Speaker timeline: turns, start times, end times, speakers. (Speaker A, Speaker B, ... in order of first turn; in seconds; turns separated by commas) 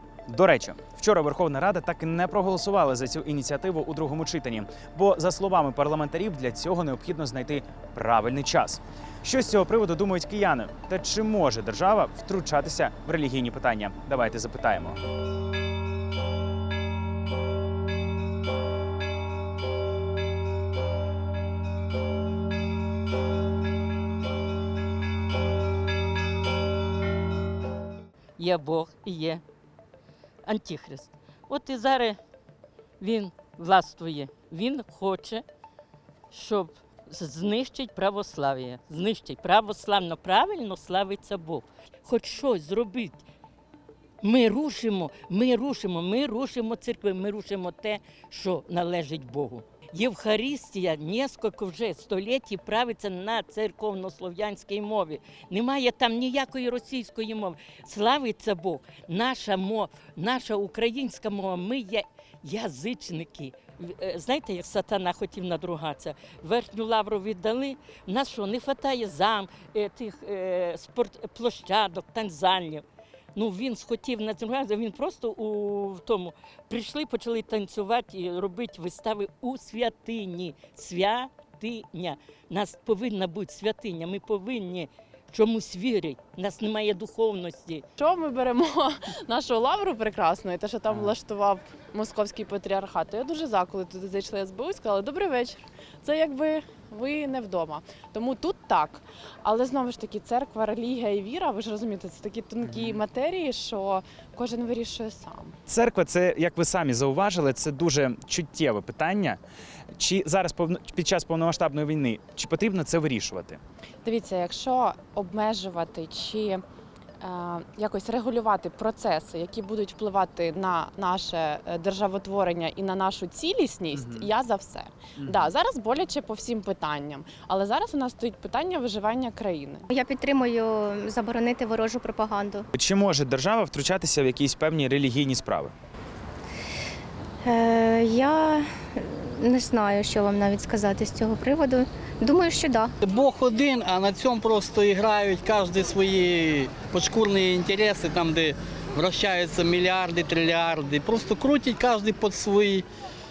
Speaker A: 0.3-15.0, Speaker B: 28.4-29.4, Speaker B: 30.4-32.2, Speaker B: 33.0-35.4, Speaker B: 36.3-43.2, Speaker B: 44.2-72.8, Speaker B: 73.3-87.8, Speaker C: 88.0-105.5, Speaker A: 102.7-103.0, Speaker A: 105.7-109.4, Speaker A: 110.0-113.6, Speaker C: 114.0-116.6, Speaker C: 117.2-129.8, Speaker A: 123.9-124.3, Speaker A: 125.2-125.5, Speaker D: 129.9-132.6, Speaker A: 132.7-135.7, Speaker D: 137.4-142.9, Speaker E: 143.0-152.8